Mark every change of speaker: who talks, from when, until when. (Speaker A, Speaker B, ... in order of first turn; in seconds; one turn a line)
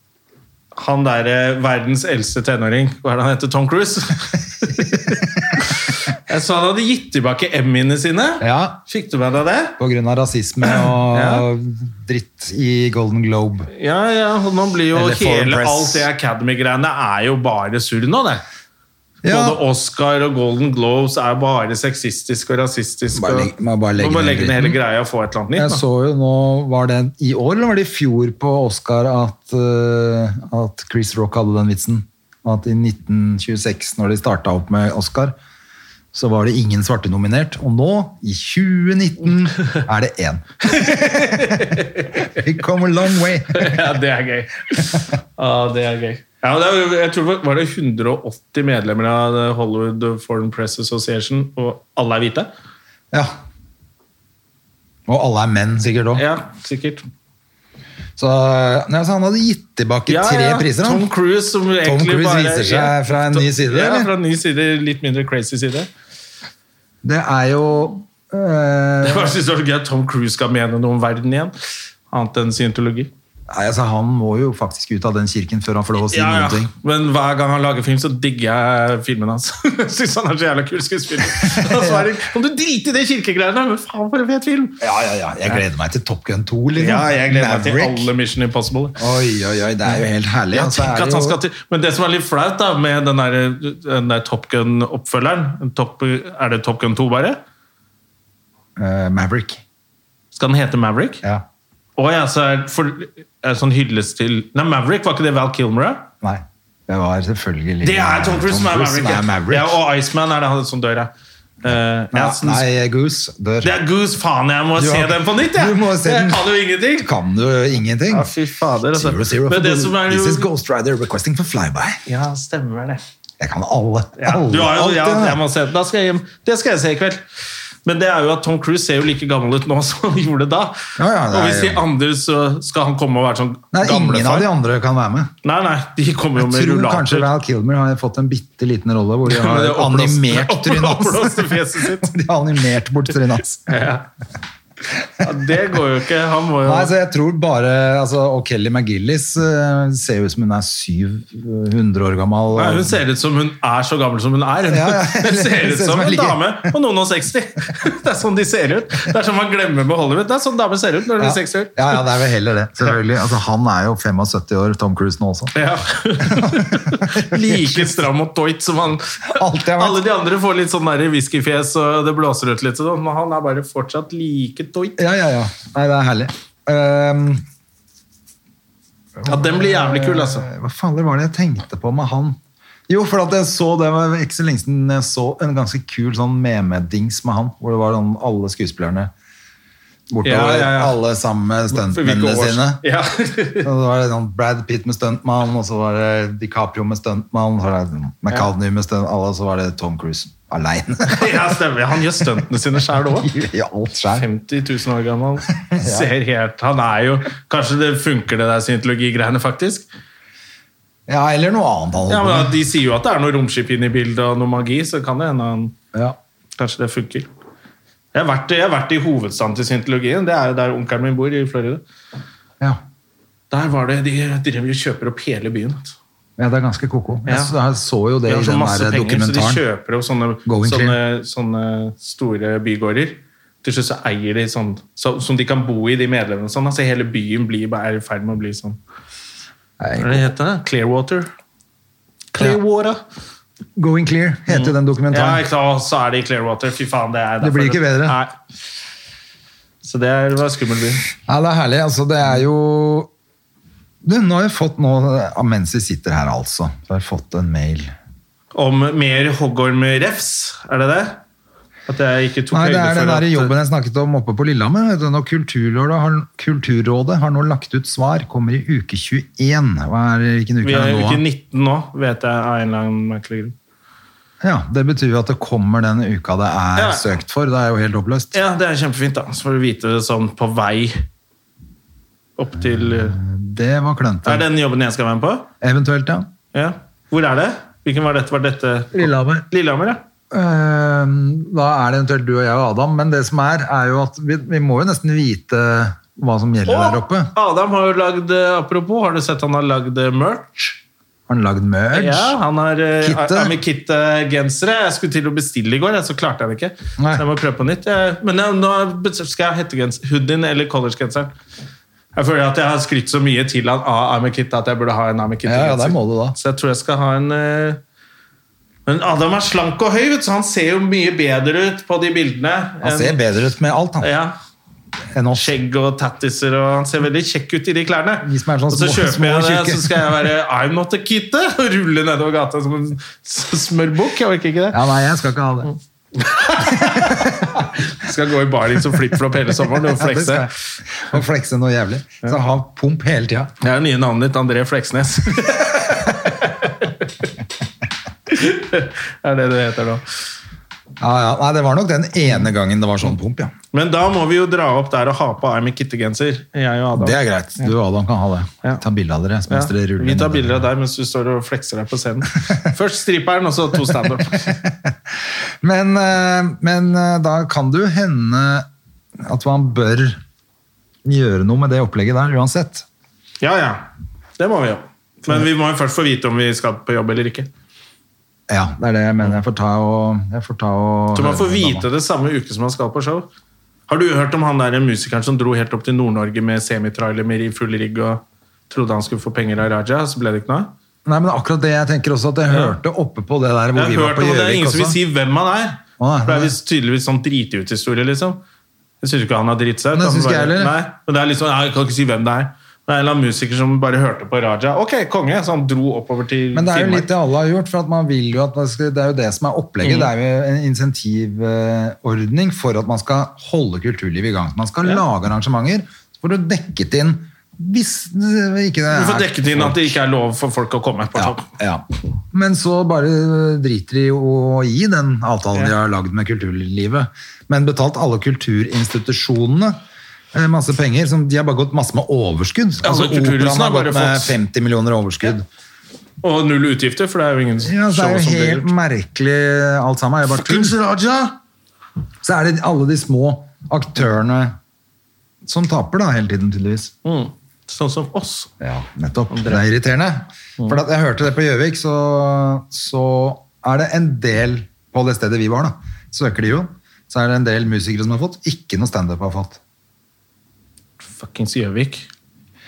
Speaker A: 0.8-9.8
Speaker B: 8.4-8.8
Speaker B: 9.8-13.7
Speaker A: 10.6-11.5
Speaker A: 13.7-18.4
Speaker B: 14.9-16.1
Speaker B: 19.2-19.6
Speaker A: 19.2-25.8
Speaker B: 23.1-24.8
Speaker B: 25.5-35.3
Speaker B: 36.1-43.8
Speaker A: 40.7-42.4
Speaker A: 43.5-52.5
Speaker B: 55.1-56.2
Speaker A: 56.1-57.0
Speaker B: 58.2-61.1
Speaker A: 60.1-65.9
Speaker B: 61.8-64.1
Speaker B: 67.0-69.3
Speaker A: 69.0-71.5
Speaker A: 72.1-73.1
Speaker B: 73.5-76.7
Speaker A: 76.0-84.8
Speaker B: 81.4-82.1
Speaker B: 84.8-88.1
Speaker A: 86.8-89.0
Speaker B: 89.0-91.4
Speaker A: 90.5-97.4
Speaker B: 98.8-99.6
Speaker A: 100.3-101.2
Speaker A: 102.0-106.1
Speaker B: 106.2-109.8
Speaker A: 107.8-111.1
Speaker A: 111.6-112.7
Speaker B: 112.1-113.8
Speaker A: 113.6-117.1
Speaker B: 114.8-118.3
Speaker A: 118.1-120.5
Speaker B: 118.9-122.0
Speaker A: 122.1-123.0
Speaker B: 123.4-125.4
Speaker A: 124.2-127.2
Speaker A: 127.8-130.8
Speaker B: 131.0-131.8
Speaker A: 131.3-134.5
Speaker B: 133.7-135.3
Speaker A: 135.4-137.3
Speaker B: 136.4-143.7
Speaker A: 139.3-142.1
Speaker A: 143.7-144.1
Speaker A: 145.2-146.9
Speaker B: 146.6-153.0
Speaker A: 152.5-162.0
Speaker B: 154.7-156.8
Speaker B: 161.2-165.6
Speaker A: 165.5-175.0
Speaker B: 166.2-168.1
Speaker B: 169.3-170.0
Speaker B: 175.0-177.4
Speaker B: 179.2-182.4
Speaker A: 179.3-180.5
Speaker B: 182.9-189.1
Speaker B: 190.1-192.8
Speaker A: 190.2-191.0
Speaker A: 191.7-193.7
Speaker B: 193.6-201.5
Speaker A: 201.1-203.3
Speaker B: 203.1-204.3
Speaker A: 204.2-209.9
Speaker B: 205.7-206.1
Speaker B: 211.1-212.6
Speaker A: 212.1-215.8
Speaker A: 216.6-217.3
Speaker A: 218.1-221.8
Speaker A: 223.5-226.0
Speaker B: 226.4-229.6
Speaker A: 227.3-227.5
Speaker A: 228.3-238.8
Speaker B: 230.5-231.0
Speaker B: 239.8-240.3
Speaker A: 240.0-241.3
Speaker A: 242.3-243.0
Speaker B: 243.8-245.4
Speaker A: 244.5-248.3
Speaker B: 247.4-248.2
Speaker A: 249.8-251.1
Speaker B: 251.3-253.1
Speaker B: 254.0-257.9
Speaker A: 258.5-261.2
Speaker A: 261.9-263.5
Speaker B: 262.5-271.2
Speaker A: 270.6-273.6
Speaker B: 274.4-278.4
Speaker A: 276.8-277.1
Speaker A: 278.3-281.0
Speaker A: 282.4-283.2
Speaker B: 282.6-284.5
Speaker A: 284.2-285.5
Speaker B: 285.6-286.3
Speaker A: 286.5-290.0
Speaker B: 288.9-289.4
Speaker B: 290.3-297.3
Speaker A: 296.7-300.8
Speaker B: 301.3-302.4
Speaker A: 301.9-311.4
Speaker B: 303.0-303.6
Speaker B: 307.0-307.2
Speaker A: 312.1-317.8
Speaker B: 315.4-316.4
Speaker A: 318.9-323.2
Speaker B: 322.8-324.1
Speaker A: 324.0-324.4
Speaker B: 325.1-325.5
Speaker A: 325.3-334.8
Speaker B: 328.2-330.1
Speaker B: 334.7-335.7
Speaker A: 336.1-340.5
Speaker B: 336.6-337.6
Speaker B: 339.7-343.5
Speaker A: 343.6-347.1
Speaker A: 348.3-350.0
Speaker B: 351.0-353.5
Speaker A: 353.7-357.7
Speaker B: 357.0-360.6
Speaker A: 359.5-364.5
Speaker B: 364.4-365.0
Speaker B: 365.6-368.7
Speaker B: 369.2-370.2
Speaker B: 371.0-372.9
Speaker A: 373.4-377.5
Speaker B: 378.5-381.9
Speaker A: 381.1-383.3
Speaker A: 383.9-390.7
Speaker B: 391.1-395.0
Speaker A: 393.8-398.4
Speaker B: 396.0-396.6
Speaker A: 399.0-407.1
Speaker B: 399.9-400.8
Speaker B: 406.5-420.0
Speaker A: 409.8-410.1
Speaker A: 418.9-421.5
Speaker B: 421.1-429.8
Speaker B: 430.3-435.5
Speaker A: 432.8-434.4
Speaker A: 436.2-438.7
Speaker B: 437.6-440.8
Speaker A: 440.3-441.4
Speaker B: 442.2-444.6
Speaker B: 445.4-446.9
Speaker A: 447.1-448.5
Speaker B: 448.6-459.6
Speaker A: 449.3-449.6
Speaker A: 461.0-462.1